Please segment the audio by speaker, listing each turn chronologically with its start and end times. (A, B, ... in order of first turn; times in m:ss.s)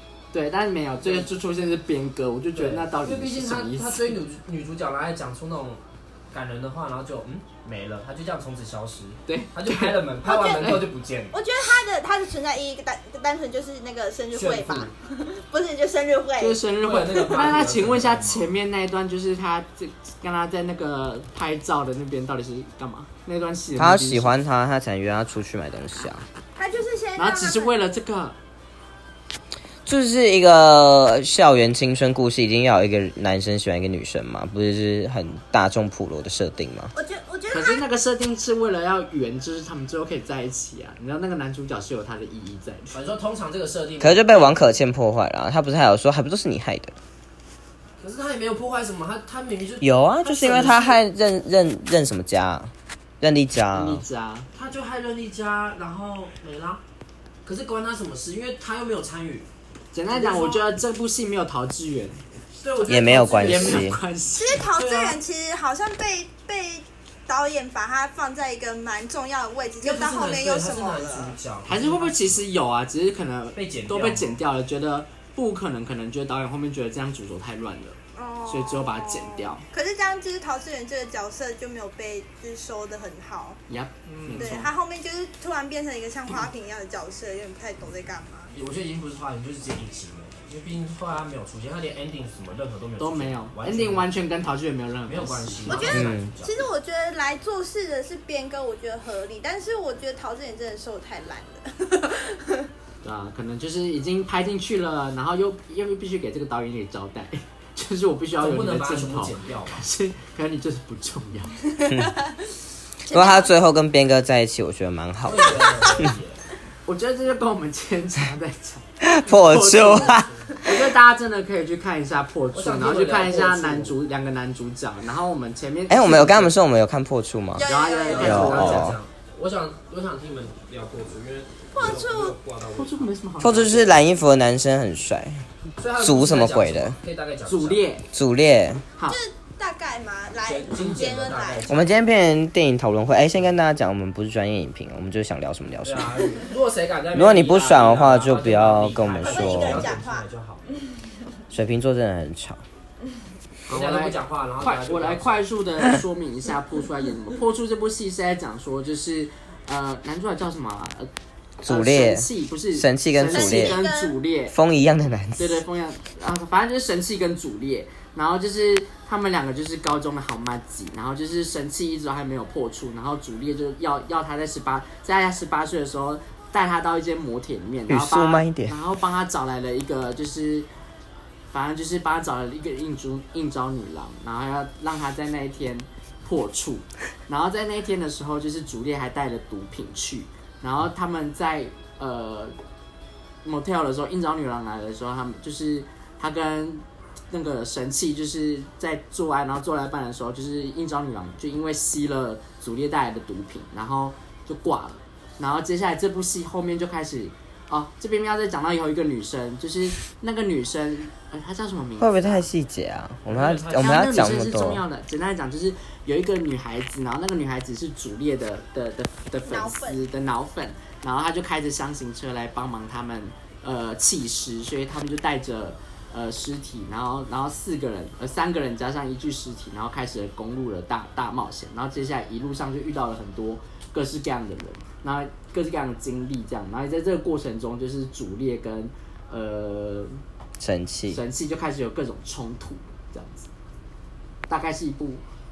0:00.3-0:04.2 A
0:01.0-0:01.3 B
0:02.6-0:05.8 B
0:06.3-0:11.4 B
0:09.3-0:10.0 A
0:10.2-0:10.8 C
0:10.6-0:10.8 A
0:11.3-0:16.6 C
0:14.3-0:14.9 B
0:16.4-0:24.4 A
0:16.8-0:18.5 B
0:23.8-0:26.2 D
0:26.6-0:27.8 C
0:27.2-0:28.4 A
0:29.8-0:36.9 D
0:37.0-0:37.8 C
0:37.5-0:43.0 A
0:42.9-0:44.8 B
0:44.0-0:47.0 D
0:48.0-0:51.0 B
0:49.8-0:54.0 D
0:53.7-0:54.5 A
0:54.5-0:56.8 B
0:57.5-0:59.5 B
0:59.9-1:02.2 A
1:00.1-1:00.6 B
1:02.6-1:03.9 B
1:02.9-1:04.0 D
1:03.4-1:04.7 A
1:04.4-1:11.4 C
1:04.7-1:05.2 B
1:09.8-1:12.4 B
1:11.6-1:19.6 A
1:13.6-1:14.4 B
1:18.2-1:23.6 C
1:23.7-1:24.7 A
1:24.1-1:24.5 B
1:24.4-1:28.5 C
1:28.5-1:34.1 B
1:33.0-1:35.9 A
1:35.1-1:36.7 B
1:35.7-1:42.7 C
1:35.9-1:36.3 D
1:43.0-1:51.6 A
1:48.4-1:49.9 B
1:51.8-1:52.3 C
1:51.9-1:52.2 D
1:53.1-1:53.5 C
1:53.1-1:56.1 D
1:55.2-1:56.5 B
1:55.4-1:56.1 C
1:56.9-2:06.5 A
1:59.0-2:00.4 D
1:59.9-2:00.3 B
2:02.5-2:04.0 B
2:05.9-2:07.7 D
2:07.6-2:08.8 C
2:07.6-2:09.0 A
2:08.0-2:13.1 B
2:08.2-2:09.0 D
2:11.7-2:12.4 C
2:12.7-2:14.0 A
2:13.4-2:15.5 D
2:15.8-2:17.8 B
2:16.0-2:17.0 D
2:17.5-2:18.1 A
2:18.1-2:18.8 D
2:19.1-2:21.7 C
2:20.4-2:21.9 B
2:21.7-2:26.3 D
2:25.8-2:30.8 B
2:27.1-2:29.9 D
2:29.2-2:30.3 C
2:31.5-2:32.6 D
2:33.7-2:41.1 A
2:33.7-2:35.4 B
2:41.6-2:43.8 D
2:41.6-2:44.6 A
2:43.3-2:44.2 C
2:44.5-2:45.6 D
2:45.4-3:00.7 A
2:57.9-2:58.8 D
3:01.5-3:12.6 A
3:13.4-3:32.5 A
3:32.0-3:34.8 D
3:33.3-3:34.2 B
3:33.8-4:00.2 A
3:39.4-3:40.0 C
4:00.6-4:01.2 D
4:01.1-4:03.5 A
4:04.5-4:05.2 A